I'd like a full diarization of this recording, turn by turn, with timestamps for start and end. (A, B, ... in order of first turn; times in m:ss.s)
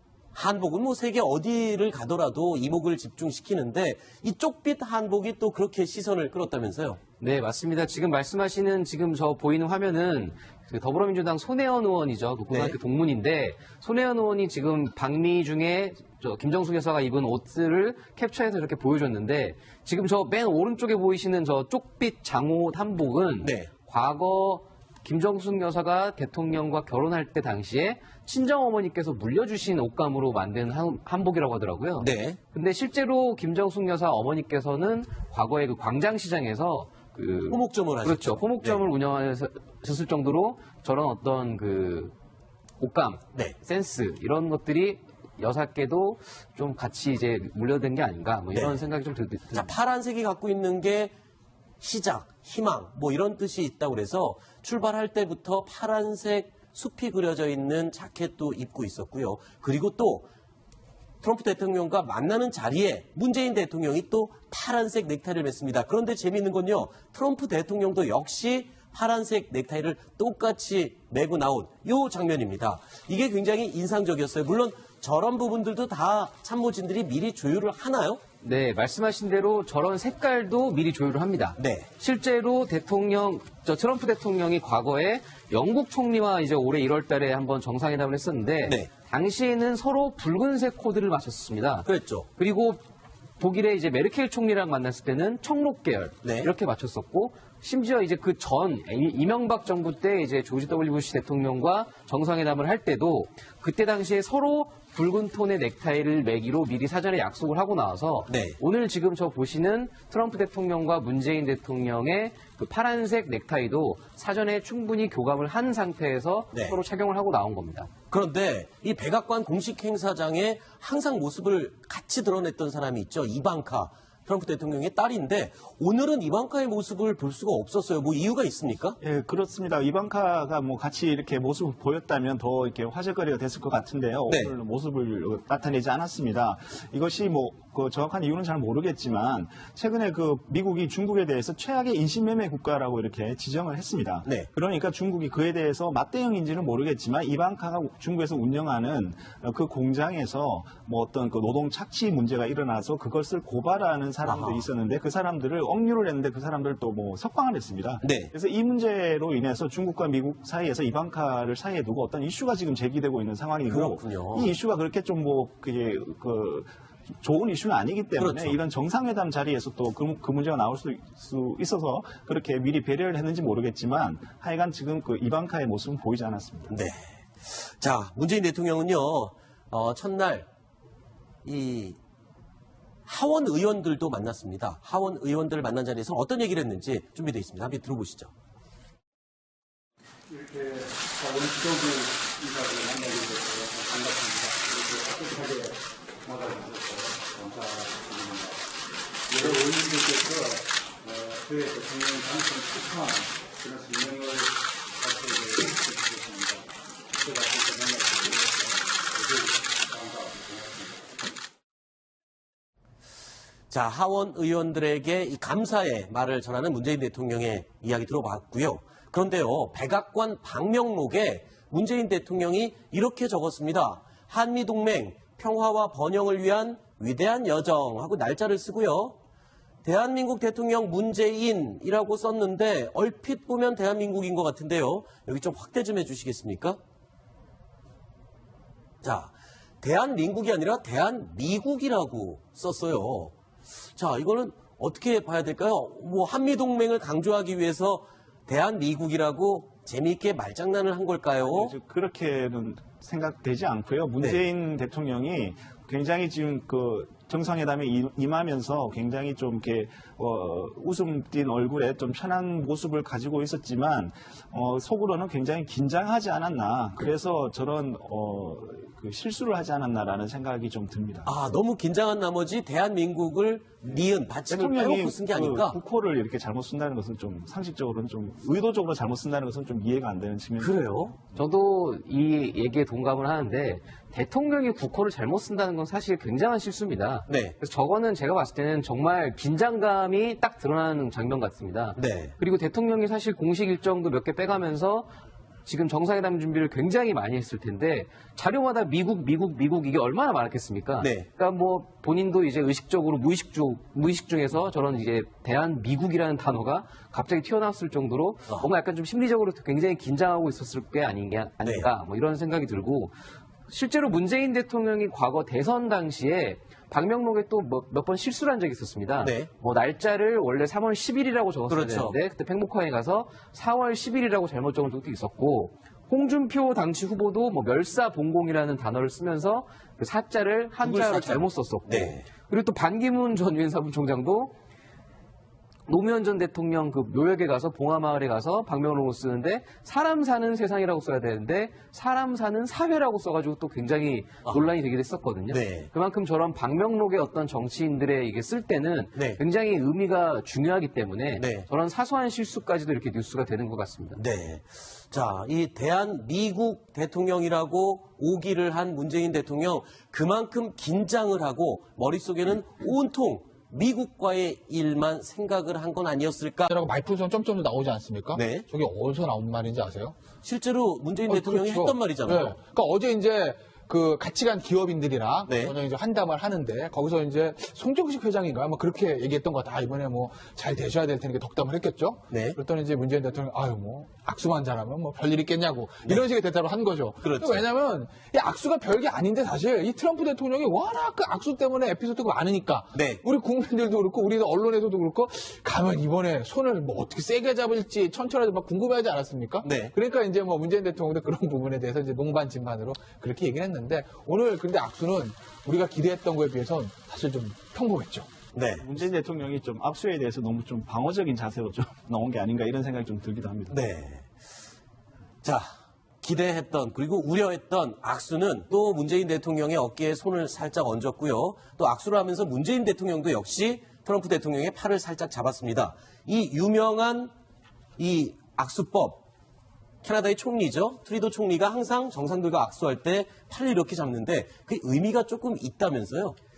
0:00.3-0:07.0 A
0:07.2-0:42.1 B
0:12.5-0:12.8 A
0:23.4-0:23.7 A
0:32.0-0:32.4 A
0:37.5-0:38.8 A
0:42.8-0:49.7 B
0:49.5-0:51.1 A
0:51.8-1:00.3 A
1:01.2-1:18.2 A
1:18.4-1:32.8 B
1:21.6-1:21.9 A
1:31.8-1:32.3 A
1:33.4-1:57.9 B
1:36.2-1:36.5 A
1:48.3-1:48.6 A
1:56.5-1:56.8 A
1:58.1-2:09.0 A
2:09.0-2:56.7 C
2:14.3-2:14.5 A
2:34.2-2:34.6 A
2:38.0-2:38.3 A
2:43.7-2:44.5 A
2:48.2-2:48.6 A
2:56.7-3:00.5 A
3:01.4-3:02.0 A
3:03.0-3:08.3 A
3:10.3-3:18.6 D
3:19.3-3:31.2 D
3:33.7-3:49.2 A
3:49.8-3:56.8 A
3:59.0-4:03.3 A
4:03.9-4:11.7 A
4:11.5-4:31.3 C
4:31.2-4:35.8 A
4:34.5-4:40.8 C
4:40.6-4:41.2 A
4:41.3-4:55.1 B
4:47.3-4:47.5 A
4:52.0-4:52.3 A
4:55.6-5:13.1 B
5:01.0-5:01.3 A
5:13.7-5:34.5 B
5:19.2-5:19.5 A
5:21.7-5:22.1 A
5:30.8-5:32.2 A
5:35.9-5:54.2 B
5:45.5-5:45.9 A
5:51.4-5:51.6 A
5:54.2-6:06.8 A
6:06.7-6:10.2 E
6:08.3-6:08.6 A
6:10.4-6:12.6 A
6:11.3-6:48.3 E
6:15.5-6:15.7 A
6:22.3-6:22.6 A
6:27.2-6:27.6 A
6:32.9-6:33.2 A
6:39.6-6:39.9 A
6:48.5-6:48.9 A
6:48.8-6:53.8 C
6:53.7-6:54.4 A
6:55.4-7:07.3 A
7:08.0-7:09.2 A
7:10.0-7:16.4 A